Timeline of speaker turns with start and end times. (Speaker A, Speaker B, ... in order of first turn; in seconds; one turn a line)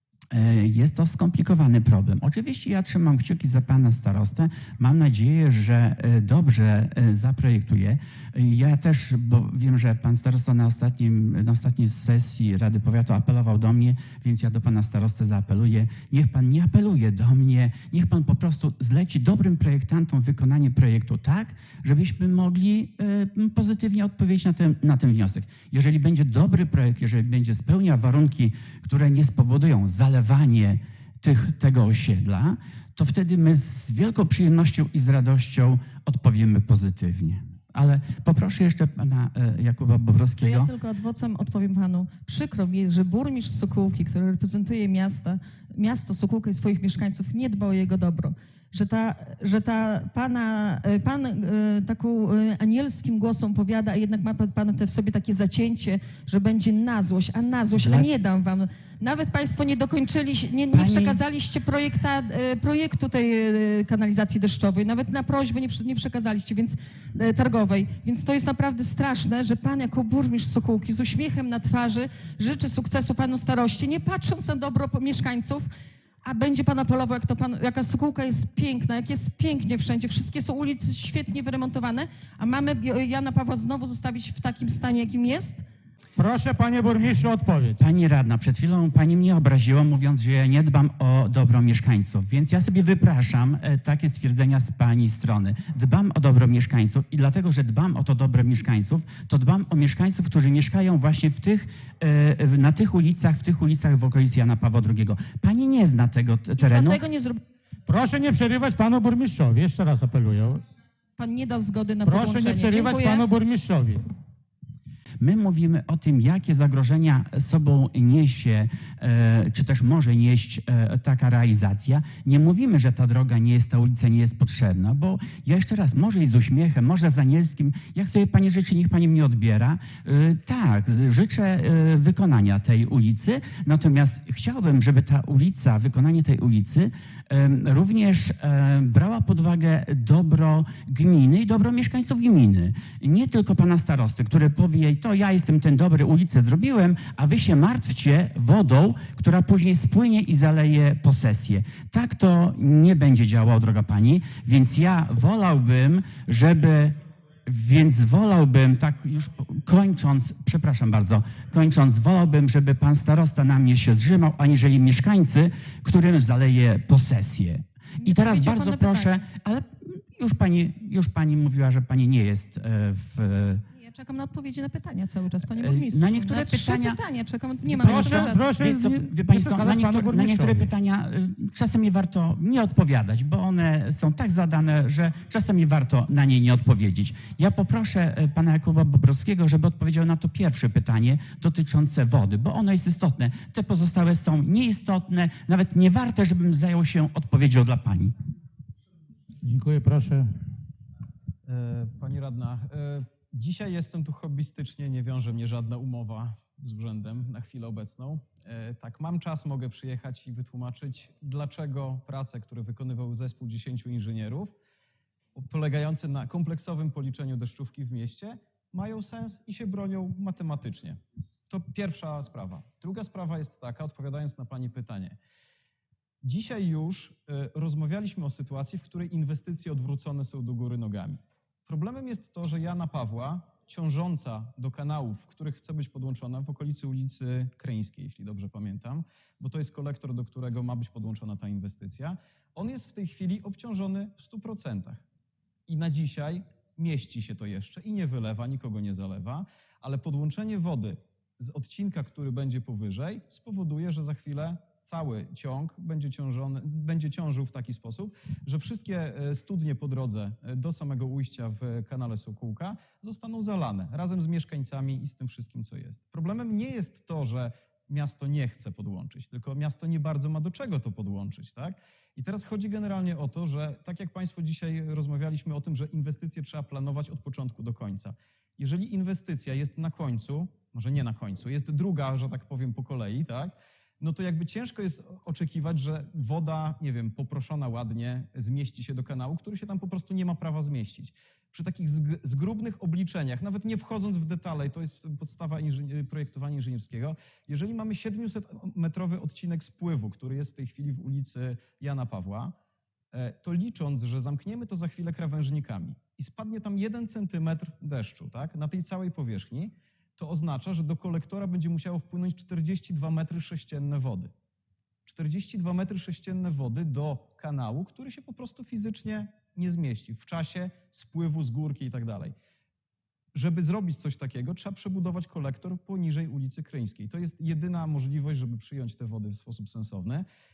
Speaker A: 0.3-40.7
Speaker B: 40.4-75.7
Speaker A: 57.7-58.1
Speaker A: 60.7-61.2
Speaker B: 76.2-85.6
Speaker C: 86.2-87.8
Speaker A: 87.8-107.0
Speaker B: 106.6-107.4
Speaker C: 107.9-110.6
Speaker B: 111.2-113.2
Speaker C: 112.0-114.0
Speaker A: 115.2-173.6
Speaker B: 168.0-169.2
Speaker B: 173.7-178.4
Speaker A: 175.5-177.0
Speaker C: 177.7-180.7
Speaker A: 177.8-198.1
Speaker C: 199.4-200.2
Speaker D: 201.4-214.6
Speaker D: 215.3-221.0
Speaker D: 221.5-225.2
Speaker D: 226.2-245.0
Speaker D: 245.7-302.5
Speaker D: 303.1-314.3
Speaker D: 315.1-322.3
Speaker D: 323.3-330.2